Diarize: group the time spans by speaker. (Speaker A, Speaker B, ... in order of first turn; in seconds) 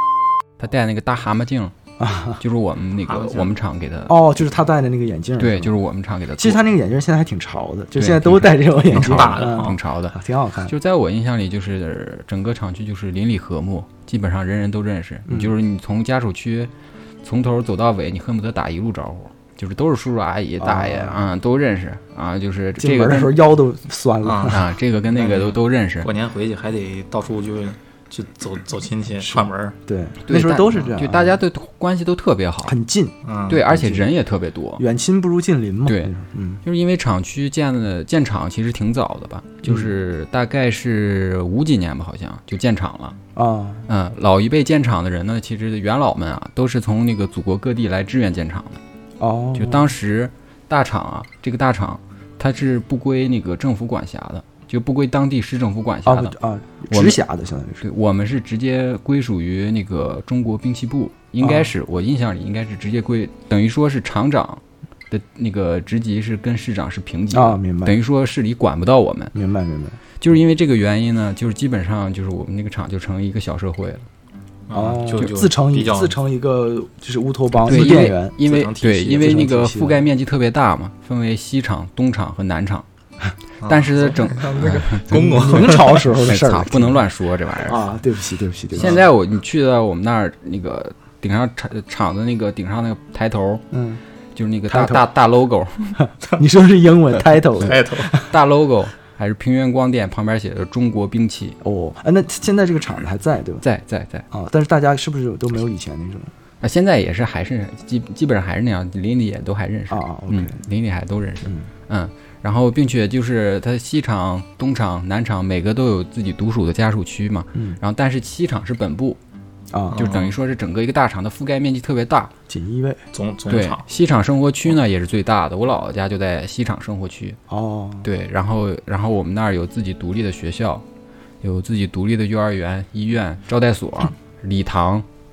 Speaker A: 0.6-1.7, 2.4-4.2, 5.4-6.6, 8.0-10.2, 10.7-16.7, 17.2-23.4, 24.5-26.1, 30.3-32.7, 33.5-34.8, 35.9-36.1, 36.6-43.2, 43.9-48.8, 49.6-56.4, 56.9-57.2, 57.8-69.3, 70.2-74.1, 77.7-82.8, 83.6-87.8, 88.8-93.6, 94.3-96.0, 98.3-101.6, 103.6-104.3, 106.6-119.2, 119.9-122.3, 123.5-127.4, 128.0-130.8, 131.4-135.1
Speaker B: 2.0-2.4, 4.1-5.7, 6.4-10.7, 15.3-15.5, 20.6-21.2, 22.8-24.6, 29.2-31.4, 32.6-33.1, 33.6-34.0, 34.8-36.6, 43.4-43.9, 49.2-49.9, 56.1-57.8, 61.4-61.7, 67.3-68.0, 69.3-70.0, 74.7-78.3, 79.1-80.0, 85.1-87.0, 87.7-89.0, 93.7-94.0, 94.7-95.0, 96.0-98.3, 101.6-103.6, 104.3-106.3, 109.9-110.6, 111.4-111.7, 117.5-117.8, 119.7-120.0, 122.5-123.0, 127.5-128.1
Speaker C: 3.1-3.5, 8.9-9.8, 24.2-29.8, 33.2-33.6, 74.7-76.2, 77.7-79.5, 83.6-86.1, 97.6-98.1, 119.9-120.4, 123.1-123.8